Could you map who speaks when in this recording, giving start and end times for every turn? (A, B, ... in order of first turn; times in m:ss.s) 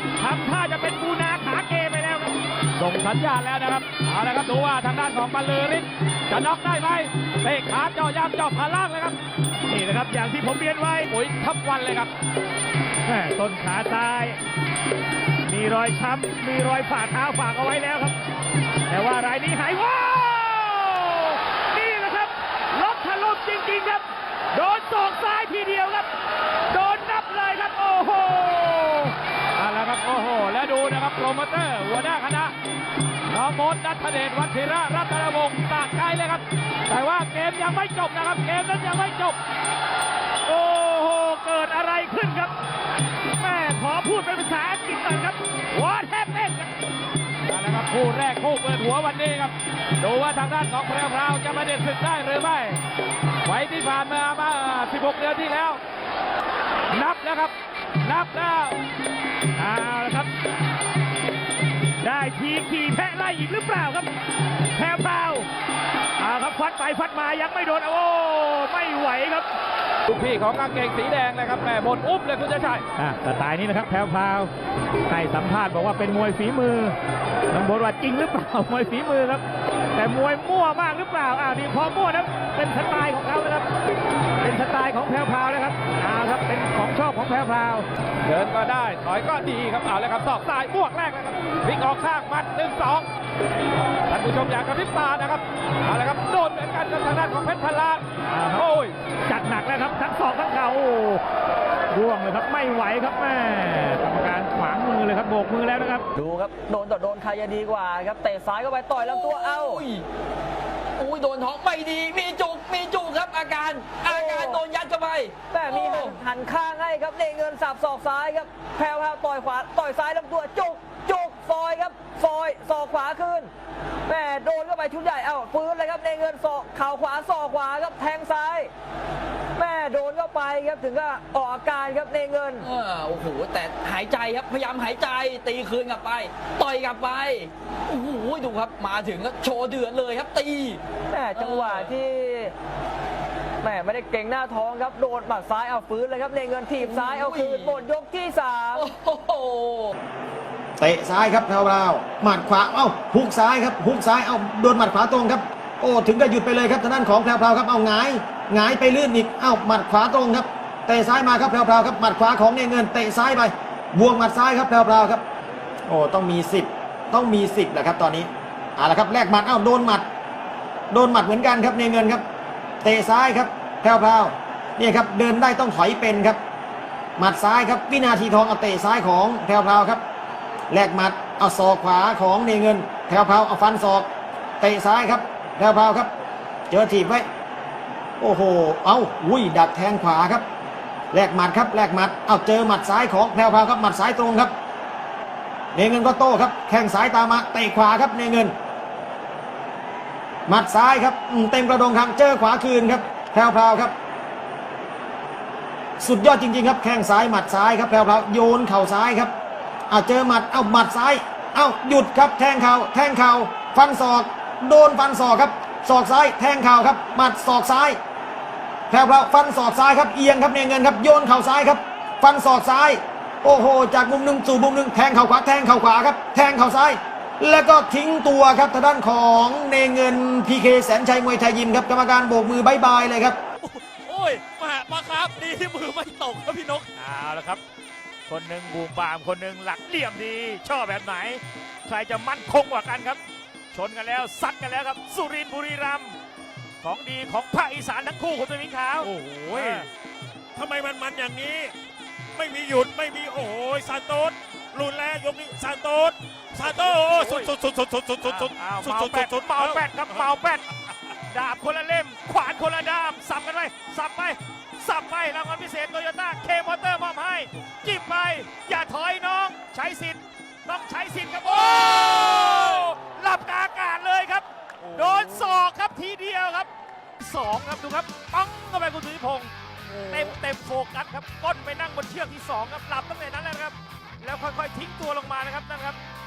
0:00.2-0:03.8 A
0:03.4-0:09.2 B
0:09.7-0:11.1 A
0:11.0-0:12.1 B
0:13.0-0:14.4 A
0:15.4-0:18.2 A
0:18.9-0:26.1 A
0:26.7-0:29.2 A
0:29.5-0:32.5 B
0:33.3-0:39.4 B
0:40.4-0:42.5 A
0:43.4-0:46.7 A
0:47.5-0:52.8 B
0:53.4-0:55.8 B
0:56.9-0:58.8 B
0:59.6-1:00.3 A
1:02.0-1:04.1 A
1:04.7-1:05.5 A
1:06.2-1:09.5 A
1:10.1-1:12.8 B
1:13.0-1:14.5 A
1:15.1-1:17.0 A
1:17.5-1:19.4 A
1:19.9-1:23.7 A
1:24.4-1:27.9 A
1:28.2-1:33.1 B
1:34.1-1:38.0 B
1:38.3-1:38.6 A
1:38.5-1:38.9 B
1:39.3-1:41.2 A
1:41.9-1:46.1 A
1:46.1-1:49.8 C
1:49.0-1:50.0 D
1:51.0-1:56.2 D
1:54.0-1:54.7 C
1:55.5-2:03.5 C
2:04.0-2:08.7 C
2:09.5-2:12.7 C
2:12.6-2:20.8 D
2:21.1-2:22.5 C
2:21.3-2:22.0 D
2:23.6-2:28.9 C
2:26.8-2:27.8 D
2:28.7-2:29.9 D
2:30.8-2:45.2 E
2:45.9-2:50.0 E
2:50.9-2:52.2 E
2:52.8-2:56.4 E
2:57.2-3:00.0 E
3:00.7-3:04.1 E
3:04.6-3:06.1 E
3:06.7-3:07.2 E
3:08.2-3:10.4 E
3:11.1-3:14.5 E
3:15.7-3:18.5 E
3:20.5-3:23.9 E
3:26.0-3:29.3 E
3:29.9-3:38.0 E
3:38.9-3:53.4 E
3:54.1-3:54.4 A
3:54.5-3:56.8 F
3:55.0-3:55.3 A
3:57.0-3:57.6 A
3:58.3-4:03.2 A
4:03.7-4:06.1 A
4:06.8-4:09.8 A
4:09.0-4:09.8 F
4:10.6-4:11.7 F
4:12.3-4:20.2 F
4:16.6-4:17.5 A
4:18.2-4:20.7 A
4:21.3-4:36.7 A
4:37.2-4:46.0 A